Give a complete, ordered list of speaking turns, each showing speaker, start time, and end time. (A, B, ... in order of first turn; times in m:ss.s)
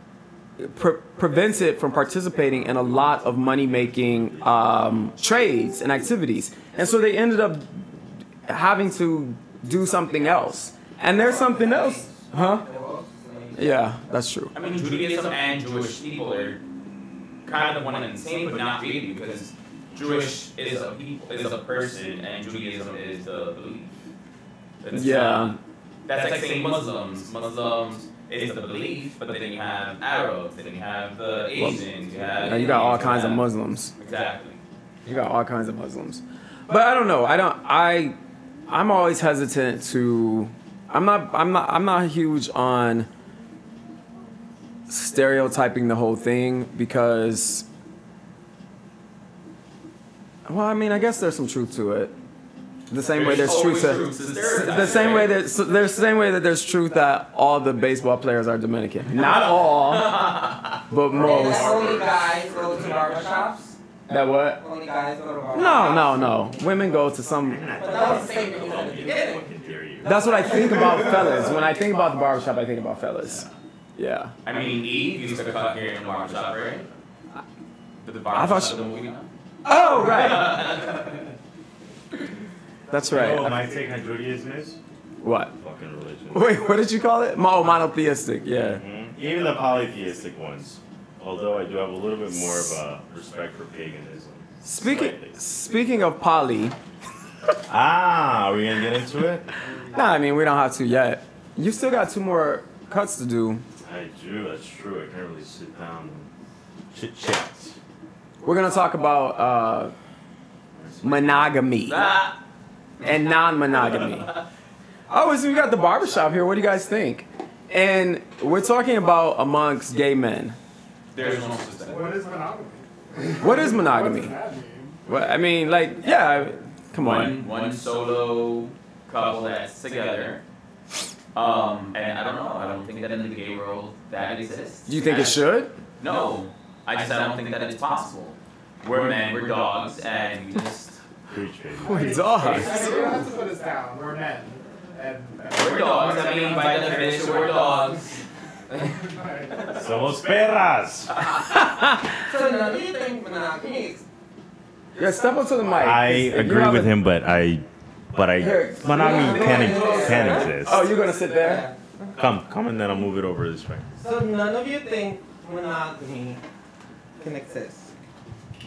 0:00.6-0:12.6 A
0:03.9-0:04.6 B
0:11.1-0:13.7 C
0:13.5-0:14.5 A
0:14.5-0:16.6 D
0:17.4-0:23.9 D
0:24.8-0:33.5 D
0:24.9-0:25.6 A
0:31.6-0:31.8 A
0:32.4-0:33.9 A
0:34.0-0:34.6 D
0:35.0-0:38.2 A
0:38.7-0:43.1 A
0:44.9-0:47.7 A
0:50.4-0:52.1 A
0:52.9-1:00.3 A
0:53.1-0:55.4 D
0:59.2-1:00.8 D
1:00.9-1:01.9 A
1:01.1-1:03.3 B
1:01.1-1:03.8 C
1:04.1-1:04.6 A
1:04.6-1:06.6 C
1:05.5-1:07.7 A
1:07.4-1:11.5 B
1:07.8-1:09.4 C
1:10.0-1:14.3 A
1:10.2-1:11.0 C
1:14.4-1:16.9 D
1:18.0-1:19.3 D
1:18.3-1:18.9 A
1:19.6-1:20.9 A
1:20.1-1:21.1 D
1:22.9-1:23.6 A
1:23.1-1:24.8 B
1:25.2-1:25.5 A
1:25.6-1:26.5 B
1:26.3-1:28.8 A
1:28.5-1:35.4 B
1:34.6-1:36.8 A
1:37.7-1:39.5 B
1:39.9-1:43.6 A
1:43.8-1:46.3 B
1:46.9-1:47.8 B
1:48.4-1:49.9 A
1:50.7-1:51.5 B
1:51.0-1:52.1 A
1:51.9-1:52.4 D
1:53.0-1:54.3 A
1:55.1-2:00.6 A
2:01.1-2:02.2 D
2:01.8-2:05.3 E
2:03.4-2:04.4 A
2:05.1-2:07.4 A
2:07.0-2:10.4 D
2:11.3-2:15.5 D
2:14.9-2:15.8 A
2:16.0-2:21.0 D
2:21.3-2:22.6 B
2:21.8-2:26.5 E
2:21.8-2:23.2 A
2:22.4-2:22.9 D
2:25.4-2:28.2 D
2:27.0-2:27.7 C
2:28.7-2:29.8 E
2:29.7-2:31.1 B
2:31.6-2:32.0 A
2:32.2-2:34.0 C
2:35.0-2:36.9 A
2:35.8-2:40.9 B
2:38.4-2:41.6 A
2:38.9-2:42.1 C
2:42.1-2:44.0 B
2:44.0-2:46.4 C
2:47.2-2:47.9 C